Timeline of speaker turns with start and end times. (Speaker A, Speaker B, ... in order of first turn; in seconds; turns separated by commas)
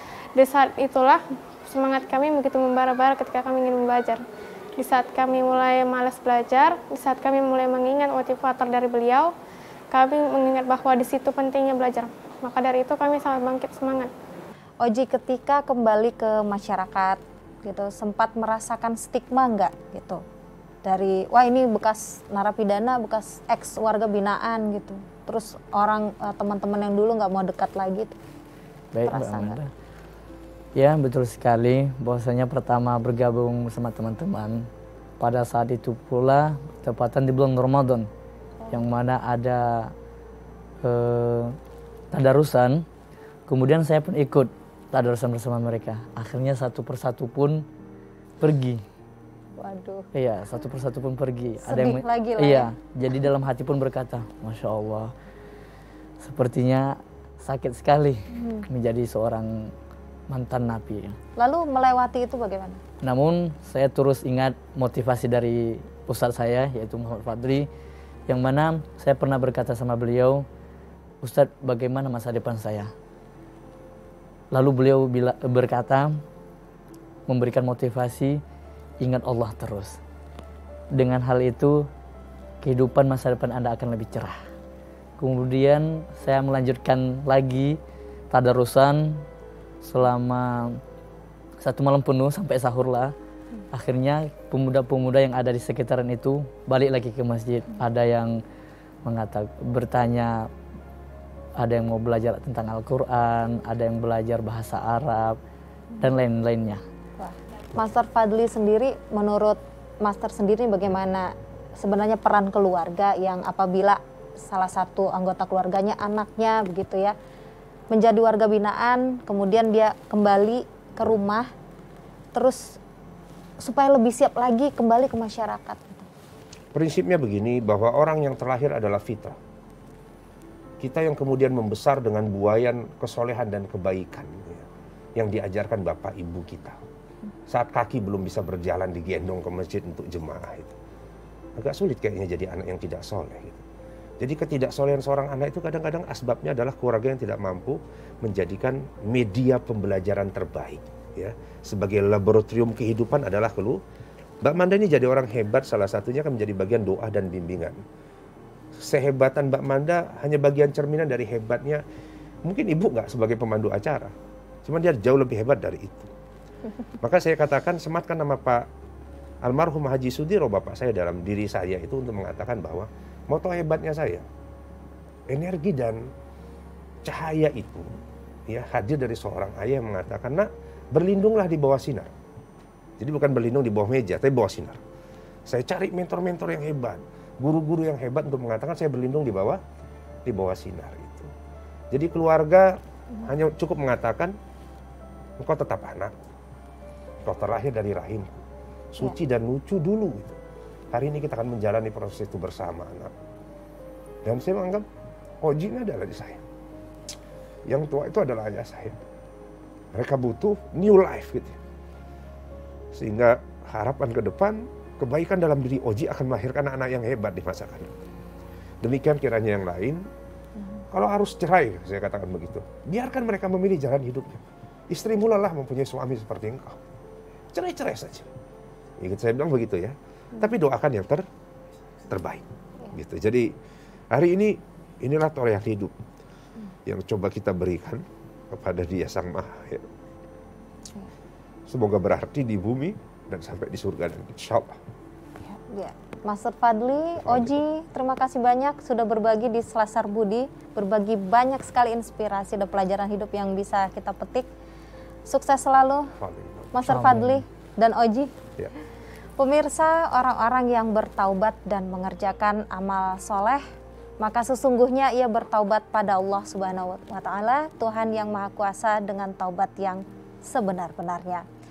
Speaker A: 0.3-4.2, Speaker A: 4.8-9.3, Speaker A: 9.9-14.1, Speaker B: 14.8-20.2, Speaker B: 20.8-28.2, Speaker C: 28.9-29.7, Speaker B: 29.1-29.6, Speaker C: 30.8-34.7, Speaker C: 35.2-38.1, Speaker C: 38.7-39.9, Speaker C: 40.8-41.5, Speaker C: 42.1-42.9, Speaker C: 43.5-47.6, Speaker C: 48.4-48.8, Speaker B: 49.6-50.1, Speaker C: 50.1-55.1, Speaker B: 51.6-52.7, Speaker C: 56.2-59.7, Speaker B: 58.3-58.7, Speaker C: 60.3-61.2, Speaker B: 61.4-62.8, Speaker C: 63.0-67.7, Speaker C: 68.3-70.5, Speaker C: 71.2-72.9, Speaker C: 74.5-76.2, Speaker C: 77.3-78.4, Speaker C: 79.0-80.0, Speaker C: 80.9-81.9, Speaker C: 82.6-84.4, Speaker C: 85.2-87.8, Speaker C: 88.3-89.3, Speaker C: 89.8-90.8, Speaker C: 91.6-93.1, Speaker C: 93.7-98.4, Speaker C: 99.0-100.5, Speaker C: 101.6-105.4, Speaker C: 106.0-106.8, Speaker B: 107.2-117.2, Speaker B: 117.9-121.5, Speaker B: 122.3-122.8, Speaker B: 123.6-126.1, Speaker D: 126.7-129.4, Speaker D: 130.8-134.7, Speaker D: 135.2-136.8, Speaker D: 137.5-140.8, Speaker D: 141.6-143.7, Speaker D: 144.2-153.8, Speaker D: 154.4-157.8, Speaker D: 158.8-161.8, Speaker D: 162.5-164.1, Speaker D: 164.7-166.1, Speaker D: 167.0-168.7, Speaker D: 169.4-174.2, Speaker D: 175.3-176.0, Speaker D: 177.0-177.9, Speaker D: 178.5-182.1, Speaker D: 183.0-184.8, Speaker D: 185.5-189.6, Speaker D: 190.2-191.3, Speaker D: 191.9-194.3, Speaker D: 195.4-196.2, Speaker D: 197.2-200.4, Speaker D: 200.9-203.1, Speaker D: 204.2-204.9, Speaker D: 205.4-206.4, Speaker D: 207.7-209.0, Speaker D: 209.9-211.6, Speaker D: 212.9-218.0, Speaker D: 218.8-220.0, Speaker D: 220.9-226.8, Speaker D: 227.5-228.3, Speaker D: 229.0-231.2, Speaker D: 232.1-233.5, Speaker D: 234.1-235.9, Speaker D: 236.9-239.8, Speaker D: 241.7-244.8, Speaker B: 245.4-254.5, Speaker D: 247.2-247.6, Speaker B: 255.3-256.1, Speaker D: 256.2-256.7, Speaker B: 256.7-258.3, Speaker C: 256.8-257.4, Speaker B: 259.4-263.6, Speaker B: 264.2-271.4